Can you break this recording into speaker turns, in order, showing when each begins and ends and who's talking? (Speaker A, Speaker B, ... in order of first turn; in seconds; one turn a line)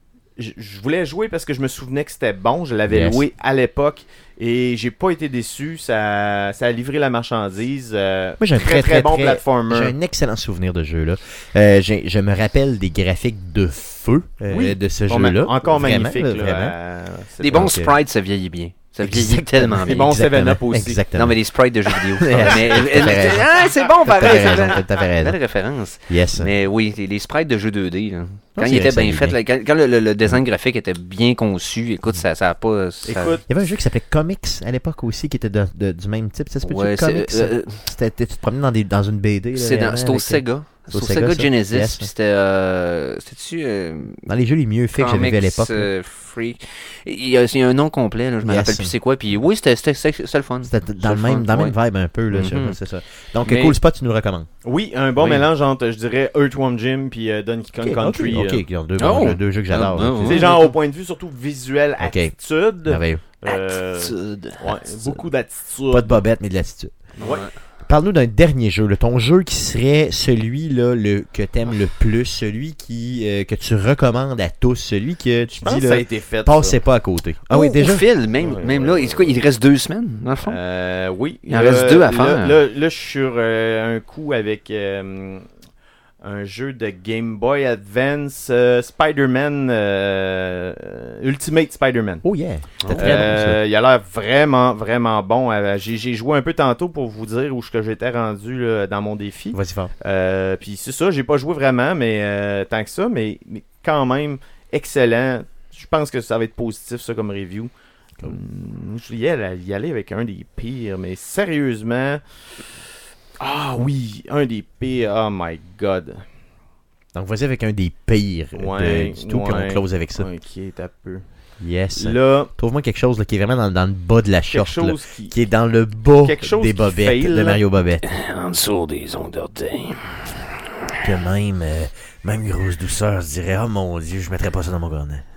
Speaker A: 0.4-9.9
Speaker B: 2.9-3.2
Speaker B: 8.4-16.7
Speaker A: 14.5-17.7
Speaker C: 17.4-20.1
Speaker B: 17.5-17.9
Speaker B: 19.0-21.4
Speaker A: 19.8-21.0
Speaker C: 21.1-33.4
Speaker B: 21.9-23.5
Speaker A: 22.3-23.1
Speaker B: 24.0-25.4
Speaker A: 24.2-24.6
Speaker B: 26.1-26.5
Speaker B: 28.6-29.4
Speaker A: 33.0-33.5
Speaker B: 33.5-42.1
Speaker C: 36.6-37.8
Speaker C: 39.5-44.2
Speaker B: 44.2-45.9
Speaker C: 44.9-51.7
Speaker B: 48.4-48.9
Speaker B: 50.6-54.5
Speaker C: 52.3-52.8
Speaker A: 53.4-53.8
Speaker A: 54.6-58.6
Speaker B: 57.8-60.5
Speaker C: 59.0-60.7
Speaker A: 60.2-66.2
Speaker B: 62.0-62.3
Speaker B: 62.9-63.2
Speaker C: 63.5-64.7
Speaker B: 65.9-66.9
Speaker C: 67.2-67.5
Speaker A: 67.2-67.5
Speaker B: 67.8-78.0
Speaker A: 75.6-76.8
Speaker C: 77.5-80.6
Speaker A: 78.4-79.4
Speaker A: 80.4-85.5
Speaker C: 81.5-82.6
Speaker A: 86.2-92.2
Speaker B: 92.2-93.6
Speaker C: 92.8-93.2
Speaker A: 92.9-107.7
Speaker B: 99.5-99.9
Speaker A: 108.2-112.2
Speaker A: 113.4-116.2
Speaker B: 117.1-120.3
Speaker A: 118.5-121.2
Speaker B: 121.6-128.0
Speaker A: 122.0-122.5
Speaker A: 124.5-125.3
Speaker A: 126.2-127.6
Speaker C: 128.0-130.7
Speaker B: 131.0-135.2